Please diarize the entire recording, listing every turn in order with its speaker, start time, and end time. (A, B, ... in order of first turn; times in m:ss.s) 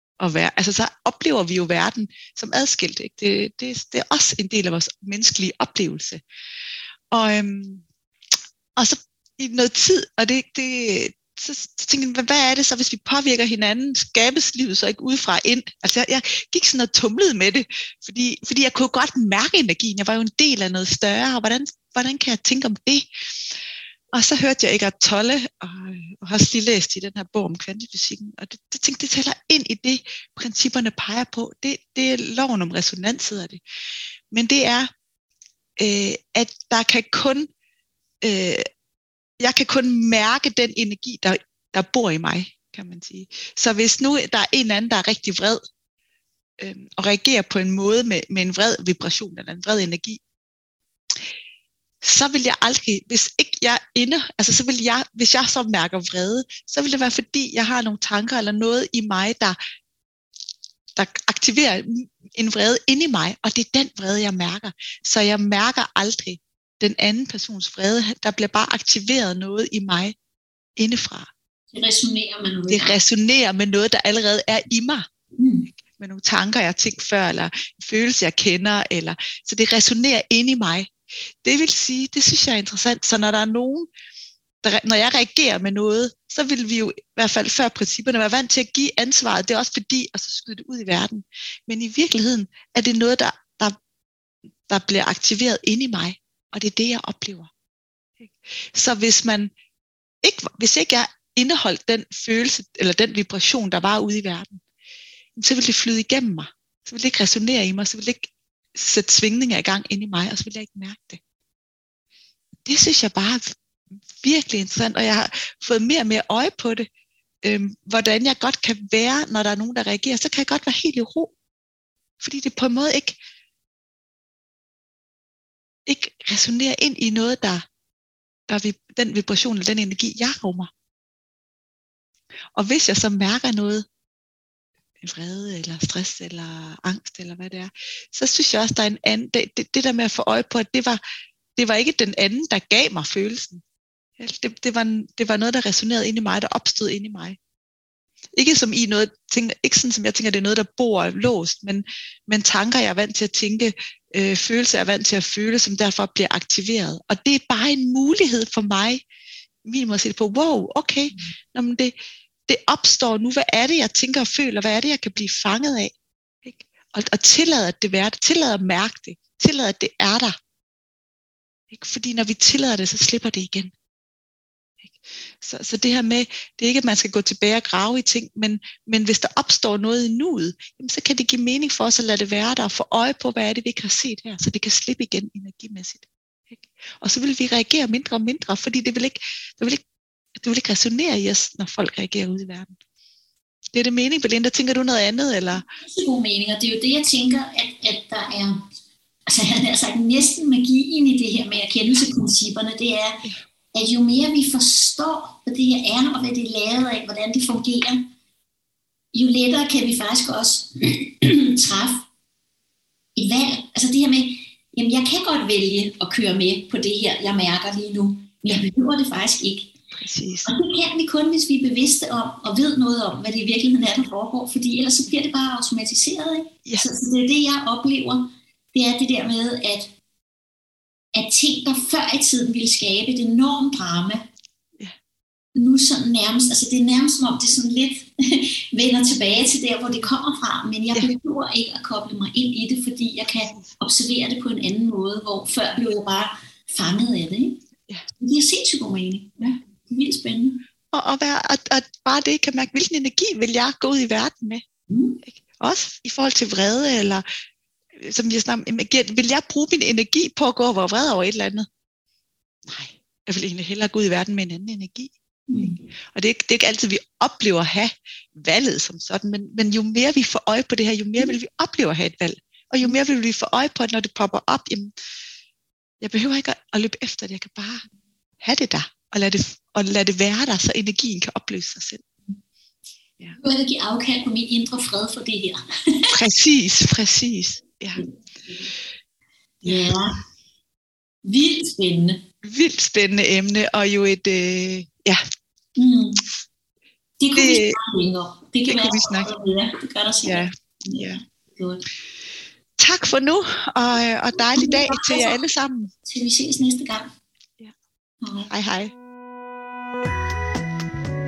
0:00.2-0:06.2 A
0:07.1-0:07.8 A
0:08.8-0:23.6 A
0:24.1-0:33.6 A
0:34.3-0:34.9 A
0:35.8-0:37.5 A
0:38.2-0:38.6 A
0:39.4-0:45.6 A
0:46.6-0:50.2 A
0:52.0-0:59.6 A
1:01.0-1:10.1 A
1:10.8-1:11.3 A
1:11.7-1:13.0 B
1:12.7-1:15.0 A
1:15.4-1:15.7 B
1:15.8-1:20.9 A
1:21.4-1:23.9 A
1:24.6-1:33.8 A
1:34.7-1:37.5 A
1:38.2-1:39.5 A
1:40.2-1:44.6 A
1:45.4-1:51.2 A
1:52.6-1:53.5 A
1:54.2-1:56.9 A
1:57.4-2:01.3 A
2:02.2-2:03.2 A
2:05.8-2:07.6 A
2:08.5-2:10.7 A
2:12.5-2:13.8 A
2:15.0-2:21.0 A
2:21.6-2:23.6 A
2:24.2-2:27.4 A
2:28.4-2:39.0 A
2:39.6-2:41.9 A
2:42.5-2:50.3 A
2:51.7-2:53.7 A
2:54.8-3:09.8 A
3:10.4-3:12.8 A
3:13.7-3:15.6 A
3:15.8-3:18.6 B
3:19.3-3:28.1 B
3:29.1-3:32.1 B
3:33.2-3:39.7 B
3:39.9-3:40.5 A
3:40.4-3:49.9 B
3:51.1-3:54.2 B
3:55.6-4:07.6 B
4:08.2-4:10.6 B
4:10.9-4:14.6 A
4:14.9-4:15.2 B
4:15.2-4:17.2 A
4:18.0-4:21.6 A
4:22.7-4:34.9 A
4:25.5-4:25.8 B
4:36.0-4:37.8 A
4:38.4-4:42.0 A
4:43.4-4:46.1 B
4:46.1-4:48.0 A
4:48.0-4:48.7 B
4:49.6-4:49.9 A
4:49.6-4:50.2 B
4:51.2-4:52.2 B
4:52.4-4:55.2 A
4:55.8-4:56.2 B
4:57.2-5:01.8 B
4:57.4-4:57.7 A
4:58.7-4:59.3 A
5:00.2-5:01.2 A
5:02.8-5:05.9 A
5:04.5-5:05.4 B
5:06.0-5:07.1 B
5:08.2-5:08.5 B
5:08.5-5:08.9 A